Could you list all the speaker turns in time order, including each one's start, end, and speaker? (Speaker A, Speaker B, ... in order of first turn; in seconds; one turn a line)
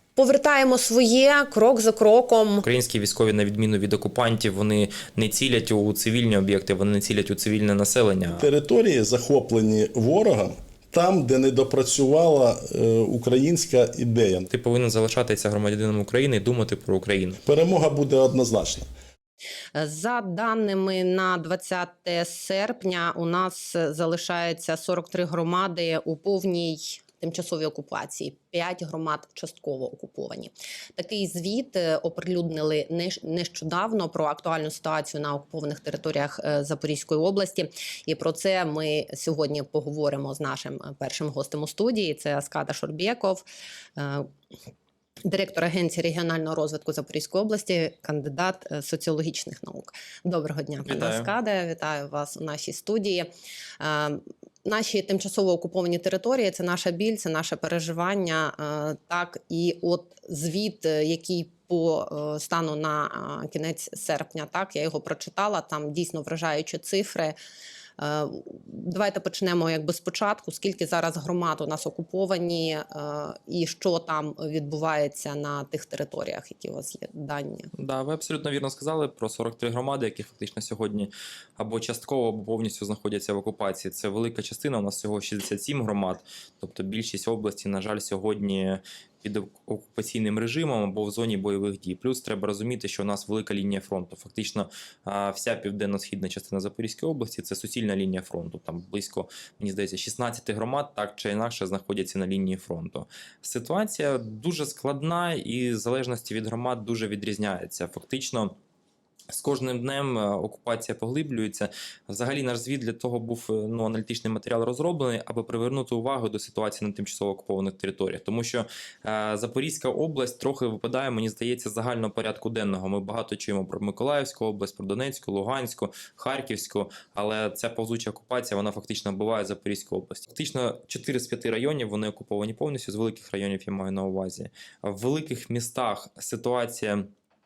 Speaker A: 0.2-2.6
Speaker B: 2.6-8.5
Speaker C: 8.3-14.5
Speaker B: 14.5-17.4
Speaker C: 17.4-18.9
Speaker A: 19.7-43.5
Speaker A: 44.0-44.3
Speaker A: 45.2-53.3
Speaker B: 50.9-51.3
Speaker A: 53.8-67.3
Speaker A: 68.0-77.7
Speaker B: 77.7-108.5
Speaker B: 109.3-137.1